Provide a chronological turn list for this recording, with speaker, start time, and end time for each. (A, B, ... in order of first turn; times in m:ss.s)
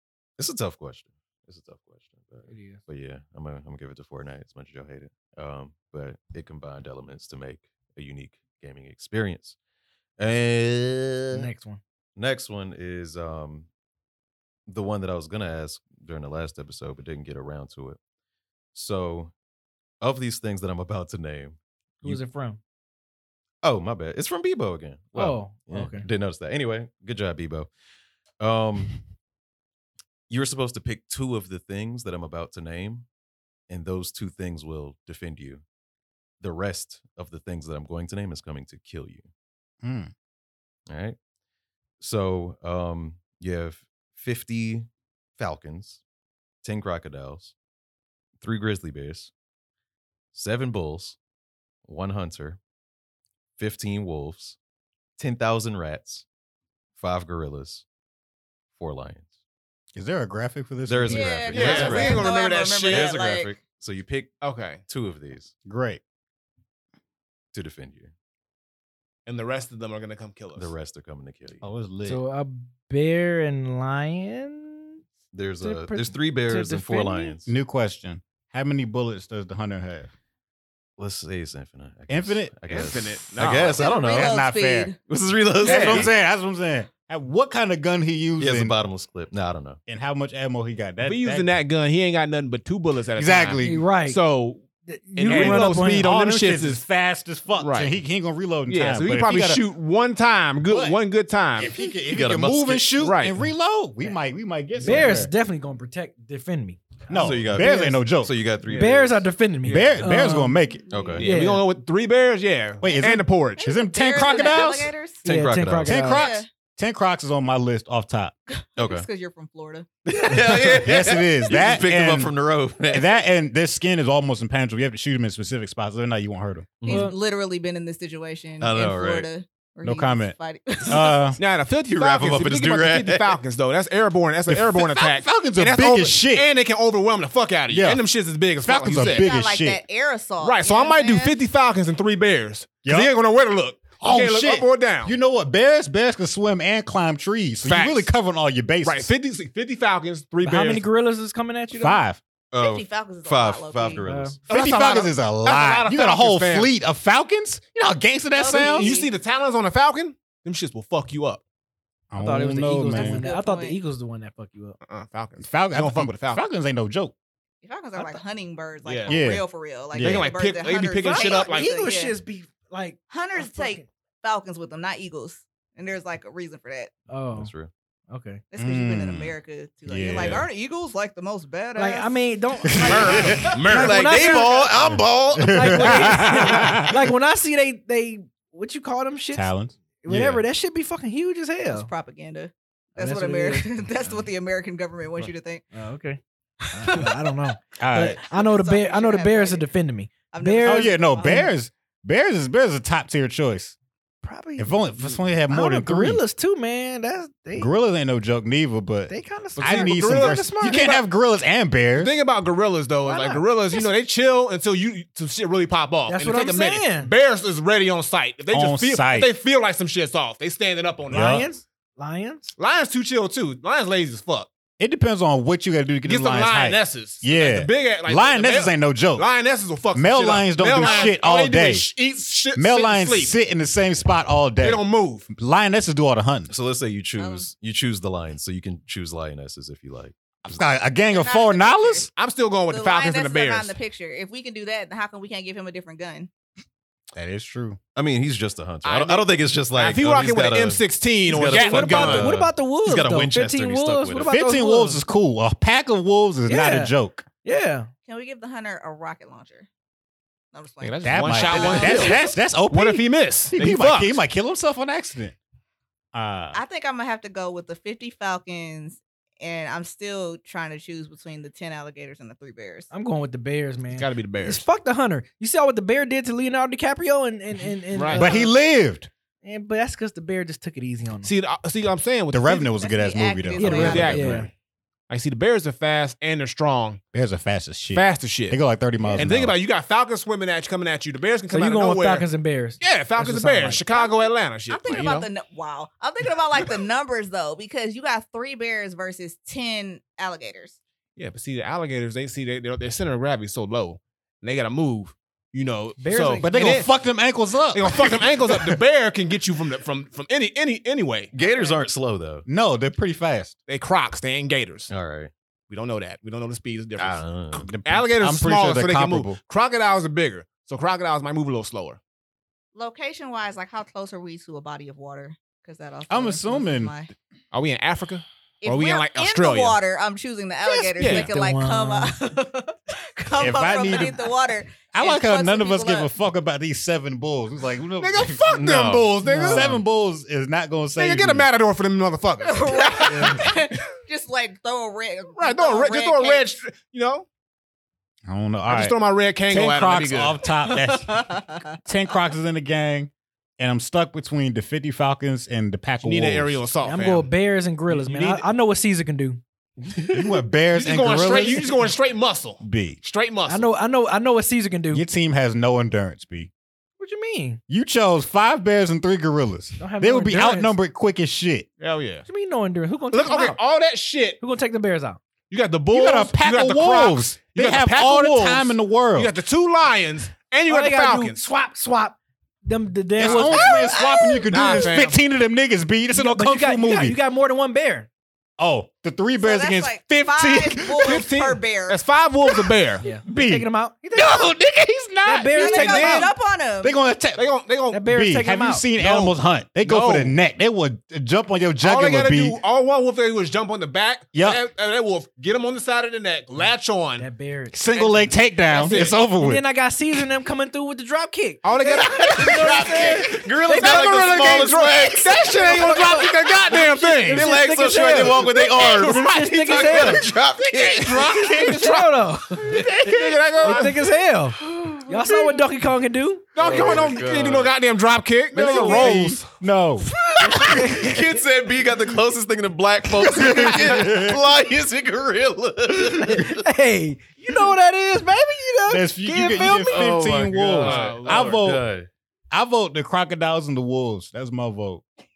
0:00.4-0:09.6 A
0:02.5-0:02.8 B
0:10.2-0:11.5 A
0:11.3-0:11.8 B
0:12.2-0:13.7 A
0:14.7-0:18.0 A
0:18.7-0:19.3 A
0:20.0-0:22.2 A
0:22.0-0:22.6 B
0:23.6-0:27.7 A
0:25.1-0:26.1 B
0:28.4-0:29.0 A
0:30.3-0:33.1 A
0:33.7-0:35.6 A
0:36.4-0:39.3 A
0:39.8-0:40.1 C
0:40.9-0:41.2 A
0:42.0-0:46.0 A
0:46.6-0:47.5 A
0:48.4-0:49.3 A
0:50.3-0:51.2 A
0:51.8-0:52.6 A
0:53.6-0:54.6 A
0:55.2-0:56.2 A
0:56.9-0:57.8 A
0:58.7-0:59.3 A
0:59.9-1:02.0 C
1:00.8-1:02.3 A
1:01.0-1:03.5 D
1:01.5-1:03.2 E
1:02.9-1:05.5 A
1:04.4-1:04.8 E
1:05.6-1:06.0 C
1:07.5-1:08.1 A
1:09.2-1:10.7 E
1:10.6-1:11.6 A
1:11.6-1:12.2 C
1:12.0-1:15.0 B
1:15.3-1:17.5 A
1:15.6-1:17.4 B
1:17.4-1:20.1 C
1:21.0-1:24.3 A
1:22.1-1:24.9 C
1:22.7-1:23.9 E
1:23.8-1:25.0 D
1:25.1-1:26.1 A
1:25.6-1:28.7 C
1:25.6-1:26.1 E
1:28.4-1:29.8 A
1:29.9-1:31.5 C
1:31.0-1:34.6 E
1:33.2-1:33.8 C
1:33.6-1:34.2 B
1:34.8-1:36.0 B
1:35.2-1:36.8 E
1:35.3-1:39.6 C
1:37.6-1:38.0 E
1:38.7-1:41.8 E
1:40.7-1:41.0 C
1:41.6-1:45.3 C
1:42.1-1:43.0 A
1:43.0-1:43.4 E
1:44.8-1:48.0 B
1:47.1-1:48.3 C
1:47.1-1:49.3 A
1:48.6-1:50.6 B
1:49.6-1:50.9 C
1:50.9-1:51.2 D
1:50.9-1:51.3 A
1:51.2-1:51.6 B
1:51.2-1:53.6 E
1:52.8-1:54.9 C
1:53.6-1:55.3 D
1:55.2-1:56.0 A
1:55.2-1:56.3 B
1:55.8-1:58.3 C
1:56.0-1:56.5 D
1:58.5-1:59.9 D
1:58.8-1:59.1 A
2:00.0-2:03.1 A
2:00.3-2:02.3 C
2:02.9-2:06.8 C
2:06.8-2:07.1 A
2:06.8-2:07.2 B
2:06.8-2:11.3 D
2:08.6-2:09.3 A
2:09.8-2:10.3 C
2:10.8-2:11.4 C
2:11.4-2:19.3 E
2:11.9-2:13.4 A
2:14.5-2:16.5 C
2:17.7-2:18.0 C
2:18.6-2:19.8 C
2:18.9-2:21.4 D
2:20.4-2:25.1 E
2:22.8-2:23.1 C
2:24.0-2:29.1 C
2:27.6-2:28.1 E
2:28.8-2:30.8 E
2:30.4-2:32.0 B
2:31.7-2:32.2 C
2:32.5-2:34.4 A
2:32.6-2:34.0 D
2:34.0-2:34.4 B
2:34.5-2:38.9 C
2:34.5-2:36.7 E
2:38.3-2:39.1 D
2:38.5-2:41.4 E
2:42.1-2:43.2 C
2:42.2-2:44.8 B
2:42.9-2:43.8 D
2:44.8-2:46.4 E
2:45.4-2:47.1 C
2:47.6-2:52.2 D
2:48.8-2:49.2 E
2:49.1-2:50.3 C
2:50.0-2:51.9 E
2:51.0-2:53.8 B
2:53.1-2:56.9 D
2:57.1-2:57.5 B
2:57.3-2:57.7 A
2:58.1-2:58.4 B
2:58.5-3:02.2 D
2:58.6-2:59.3 C
2:59.9-3:00.5 C
3:01.8-3:04.7 B
3:02.7-3:03.5 C
3:02.7-3:03.1 D
3:02.9-3:04.5 E
3:03.4-3:06.7 A
3:04.9-3:06.9 C
3:05.4-3:11.9 B
3:09.3-3:10.4 C
3:11.7-3:15.6 D
3:13.0-3:14.2 B
3:15.7-3:16.2 B
3:16.7-3:21.5 B
3:16.7-3:17.1 D
3:17.8-3:18.2 C
3:18.2-3:19.7 D
3:20.3-3:21.3 D
3:20.6-3:23.8 C
3:24.2-3:27.7 B
3:24.6-3:26.2 C
3:27.6-3:32.1 C
3:29.1-3:31.0 B
3:29.6-3:31.0 E
3:32.0-3:41.4 E
3:33.0-3:33.8 B
3:36.1-3:37.1 B
3:38.5-3:39.3 C
3:41.1-3:41.5 C
3:41.1-3:42.5 B
3:42.6-3:44.5 E
3:44.8-3:49.3 C
3:46.0-3:53.3 E
3:49.9-3:51.9 C
3:52.5-3:56.5 C
3:54.6-3:55.3 E
3:56.5-4:00.1 A
3:57.2-3:57.5 D
4:00.4-4:02.1 C
4:01.1-4:02.1 D
4:02.2-4:03.8 E
4:02.7-4:06.3 D
4:07.1-4:07.8 C
4:07.9-4:14.4 A
4:08.8-4:12.3 E
4:11.5-4:12.3 C
4:11.6-4:15.0 B
4:14.2-4:17.2 C
4:16.5-4:16.9 B
4:17.4-4:17.9 B
4:18.0-4:19.7 D
4:20.5-4:22.4 D
4:20.8-4:24.2 E
4:21.0-4:25.3 C
4:26.1-4:26.6 C
4:26.5-4:32.9 D
4:32.9-4:38.5 B
4:33.9-4:34.6 E
4:37.9-4:38.3 E
4:38.1-4:39.1 C
4:39.4-4:41.3 B
4:41.2-4:42.7 E
4:42.3-4:44.5 C
4:42.7-4:44.2 D
4:43.6-4:44.5 B
4:43.7-4:44.5 E
4:45.1-4:47.0 E
4:47.1-4:49.6 C
4:47.9-4:48.6 E
4:49.0-4:49.3 B
4:49.2-4:52.3 E
4:51.5-4:53.8 B
4:52.8-4:55.3 E
4:53.9-5:00.8 D
5:01.2-5:06.5 E
5:06.0-5:06.9 B
5:06.4-5:08.8 C
5:07.7-5:11.3 E
5:11.3-5:12.4 A
5:11.4-5:11.7 D
5:12.5-5:13.5 C
5:13.7-5:14.9 E
5:14.9-5:15.3 A
5:15.7-5:22.0 E
5:17.0-5:17.7 A
5:17.7-5:19.4 C
5:22.7-5:27.1 D
5:26.1-5:27.0 C
5:27.5-5:29.8 E
5:28.6-5:36.1 D
5:30.6-5:32.2 B
5:31.0-5:31.3 E
5:33.4-5:34.2 C
5:34.9-5:41.5 C
5:38.0-5:39.7 E
5:38.5-5:39.1 A
5:39.2-5:39.8 B
5:41.0-5:43.5 E
5:42.4-5:46.5 D
5:45.4-5:47.3 E
5:48.2-5:49.0 C
5:48.7-5:50.4 E
5:49.5-5:56.6 C
5:50.7-5:51.6 D
5:56.0-5:57.3 E
5:56.8-5:59.4 B
5:57.9-5:58.4 E
6:00.1-6:01.9 C
6:00.7-6:03.7 E
6:02.6-6:03.0 C
6:03.5-6:05.0 B
6:04.9-6:06.5 C
6:07.0-6:07.6 B
6:07.7-6:11.7 C
6:09.8-6:10.7 B
6:11.8-6:12.2 E
6:12.2-6:13.6 B
6:13.1-6:14.4 E
6:14.4-6:15.2 B
6:15.5-6:21.4 E
6:15.9-6:19.3 C
6:20.7-6:24.0 B
6:23.2-6:27.2 C
6:23.3-6:24.8 D
6:24.5-6:25.2 E
6:26.1-6:28.1 B
6:28.6-6:31.2 C
6:29.4-6:32.0 D
6:31.0-6:33.0 E
6:33.0-6:34.4 B
6:33.2-6:37.4 C
6:35.2-6:36.3 B
6:35.5-6:36.9 D
6:37.4-6:38.0 E
6:37.9-6:38.8 B
6:38.1-6:42.6 C
6:39.0-6:40.3 E
6:41.8-6:47.3 E
6:44.3-6:44.6 C
6:47.2-6:47.8 B
6:47.7-6:49.6 C
6:47.9-6:49.2 E
6:48.9-6:54.7 B
6:51.6-6:57.5 E
6:52.0-6:55.6 A
6:55.5-7:00.2 B
6:57.3-7:01.8 A
7:00.7-7:04.0 E
7:01.3-7:02.9 B
7:02.7-7:03.9 C
7:03.6-7:06.5 B
7:04.6-7:05.3 A
7:06.5-7:09.4 E
7:06.6-7:07.7 A
7:08.5-7:10.8 C
7:08.6-7:09.1 B
7:10.4-7:11.4 B
7:10.5-7:16.7 A
7:13.2-7:14.4 C
7:16.0-7:20.2 B
7:18.9-7:21.8 C
7:19.7-7:22.1 A
7:20.8-7:21.6 E
7:22.5-7:25.0 C